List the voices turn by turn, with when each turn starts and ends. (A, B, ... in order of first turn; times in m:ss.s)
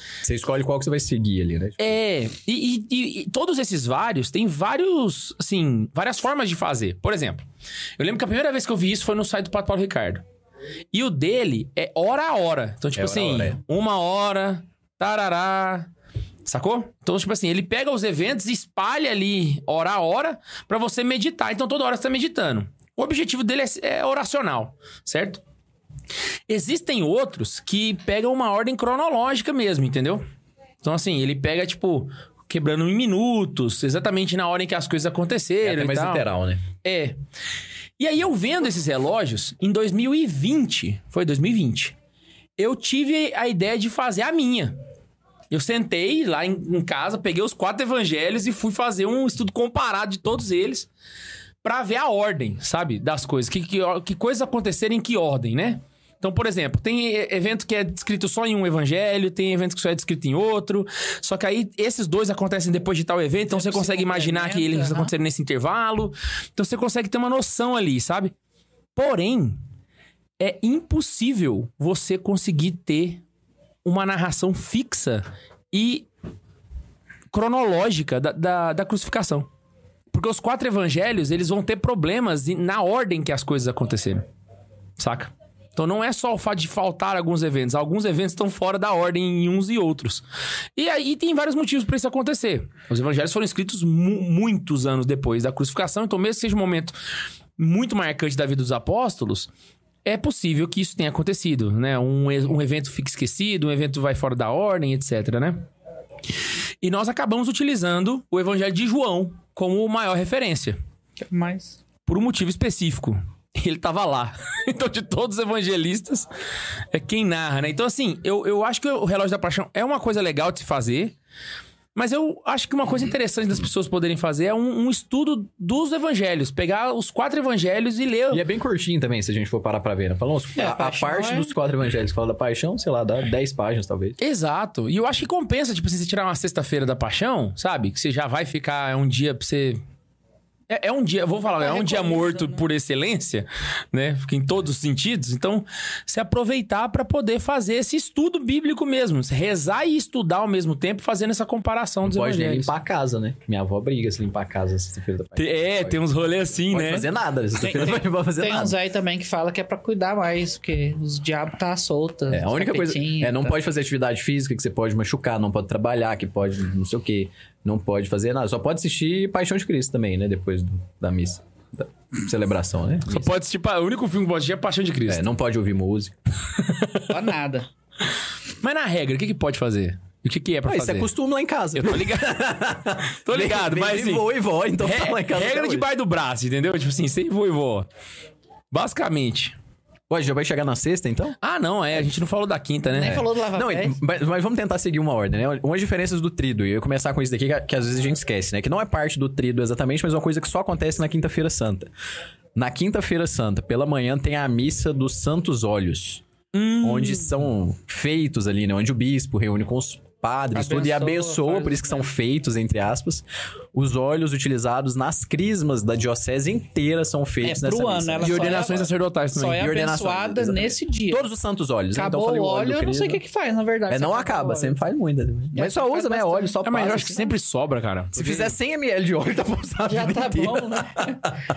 0:00.2-0:02.0 A
0:01.8-0:07.4 B
0:08.0-0:10.2 B
0:10.9-0:15.9 B
0:13.0-0:13.6 A
0:16.4-0:25.4 B
0:26.5-0:30.2 B
0:30.8-0:36.2 B
0:35.6-0:36.6 A
0:36.8-0:37.2 B
0:38.0-0:41.9 B
0:42.6-0:44.8 B
0:45.5-0:50.9 B
0:51.6-1:08.3 B
1:03.5-1:05.1 C
1:08.9-1:09.6 B
1:10.4-1:13.2 B
1:13.8-1:16.1 B
1:17.3-1:19.5 B
1:20.1-1:24.2 B
1:25.0-1:30.2 B
1:30.8-1:37.0 B
1:37.6-1:39.5 B
1:40.0-1:45.6 B
1:46.8-1:50.8 B
1:51.2-1:51.8 C
1:52.1-1:56.3 B
1:56.9-2:01.1 B
2:01.9-2:08.4 B
2:08.3-2:14.2 A
2:10.6-2:11.5 C
2:14.2-2:19.8 B
2:20.7-2:32.7 B
2:21.6-2:22.6 C
2:32.0-2:36.0 A
2:35.4-2:37.1 B
2:36.6-2:38.8 A
2:37.6-2:43.5 C
2:42.3-2:53.3 A
2:53.1-2:55.3 B
2:55.1-2:56.2 A
2:56.6-2:57.1 B
2:57.1-2:57.7 C
2:58.6-3:01.1 B
3:00.6-3:05.9 A
3:01.8-3:02.4 B
3:03.2-3:04.3 B
3:04.8-3:07.9 B
3:08.7-3:09.6 B
3:10.1-3:11.4 A
3:11.4-3:13.3 B
3:12.9-3:14.0 C
3:13.0-3:21.9 A
3:22.5-3:26.2 A
3:26.5-3:27.4 B
3:26.8-3:38.9 A
3:30.5-3:32.1 C
3:37.4-3:41.2 C
3:38.2-3:39.7 B
3:39.5-3:43.2 A
3:41.9-3:44.8 C
3:43.9-3:47.2 A
3:45.5-3:47.3 C
3:46.6-3:48.5 B
3:48.1-3:51.3 A
3:49.9-3:51.2 C